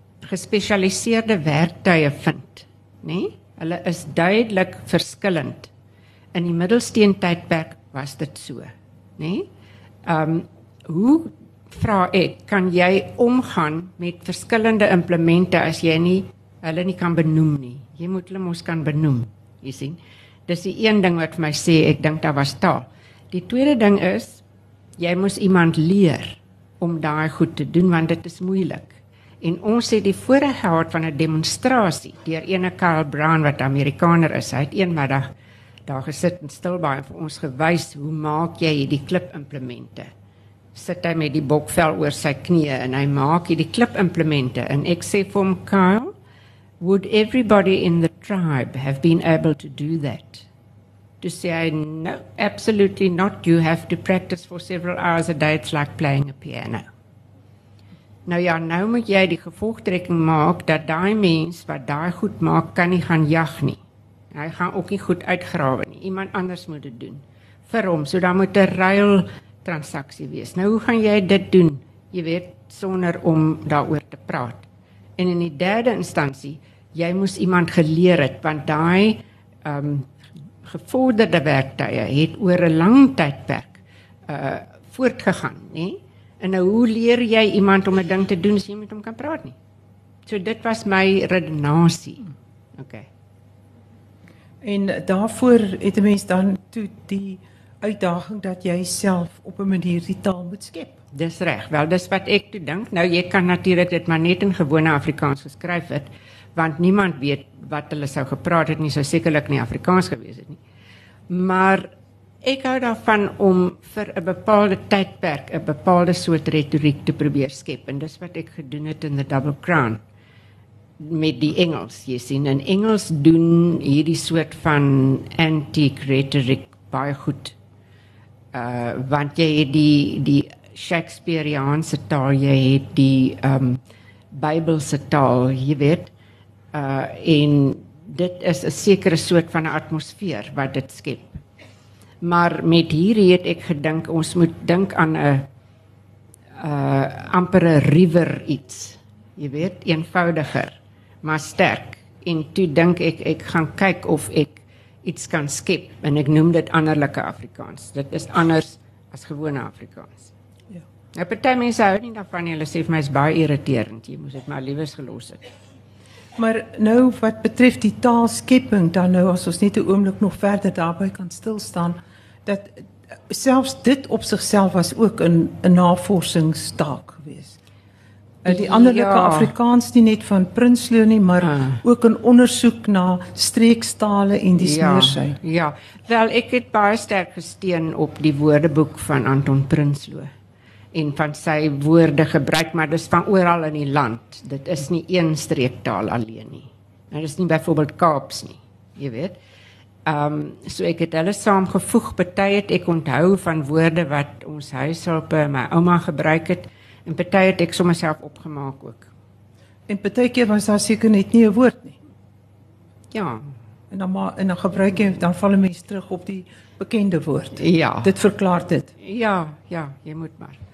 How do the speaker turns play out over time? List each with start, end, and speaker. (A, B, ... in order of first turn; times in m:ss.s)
0:00.2-0:05.7 A
0:06.3-0:09.5 A
0:10.0-0:24.4 A
0:25.0-0:35.3 A
0:35.8-0:40.1 A
0:40.7-0:46.1 A
0:46.8-0:50.5 A
0:51.2-0:56.8 A
0:58.2-1:03.8 A
1:04.3-1:29.6 A
1:30.2-1:33.1 A
1:34.6-1:41.0 B
1:41.1-1:50.6 A
1:51.3-1:51.9 A
1:52.4-2:00.0 A
2:01.0-2:07.6 A
2:08.5-2:13.8 A
2:14.3-2:16.1 A
2:16.7-2:21.4 A
2:22.2-2:25.5 A
2:26.6-2:40.3 A
2:41.1-2:45.5 A
2:46.4-2:57.6 B
2:58.4-3:05.4 B
2:58.4-2:59.5 A
3:01.5-3:01.8 A
3:04.6-3:10.3 A
3:10.9-3:19.4 A
3:20.0-3:29.1 A
3:29.9-3:32.0 B
3:33.1-3:33.4 A
3:33.9-3:38.9 B
3:37.6-3:38.1 A
3:39.0-3:40.6 A